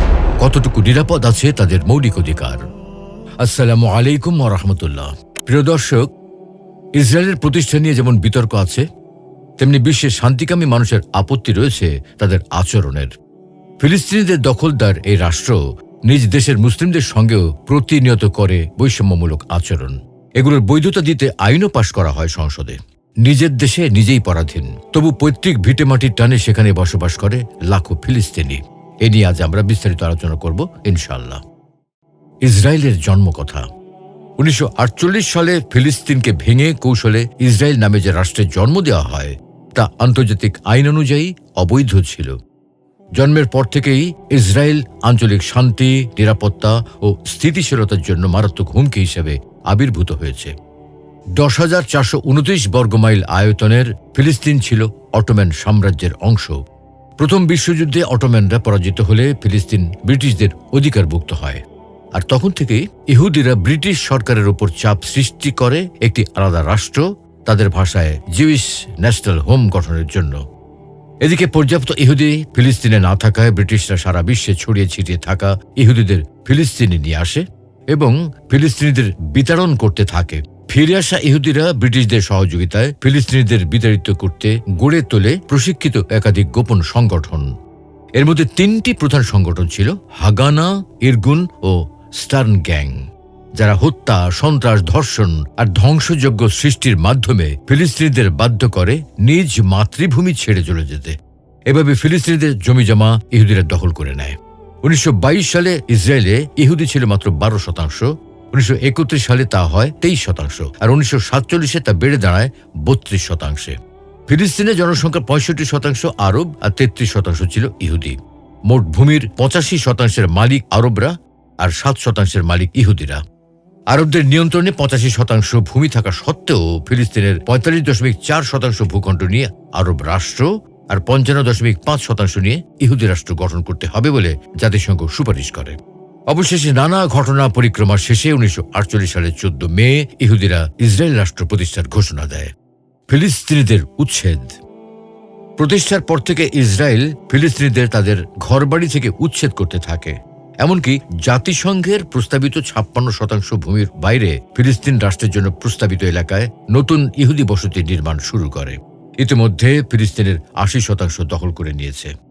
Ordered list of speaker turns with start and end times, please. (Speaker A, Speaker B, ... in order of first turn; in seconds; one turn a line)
Speaker A: 0.4-2.6
Speaker A: 3.4-6.0
Speaker A: 7.0-8.8
Speaker A: 9.6-13.1
Speaker A: 13.8-31.4
Speaker A: 32.4-33.6
Speaker A: 34.4-42.3
Speaker A: 43.1-50.5
Speaker A: 51.4-56.6
Speaker A: 57.2-61.6
Speaker A: 62.1-70.4
Speaker A: 71.2-87.5
Speaker A: 88.2-101.2
Speaker A: 101.7-123.2
Speaker A: 123.9-135.8
Speaker A: 136.3-142.5
Speaker A: 143.1-144.5
Speaker A: 145.6-162.1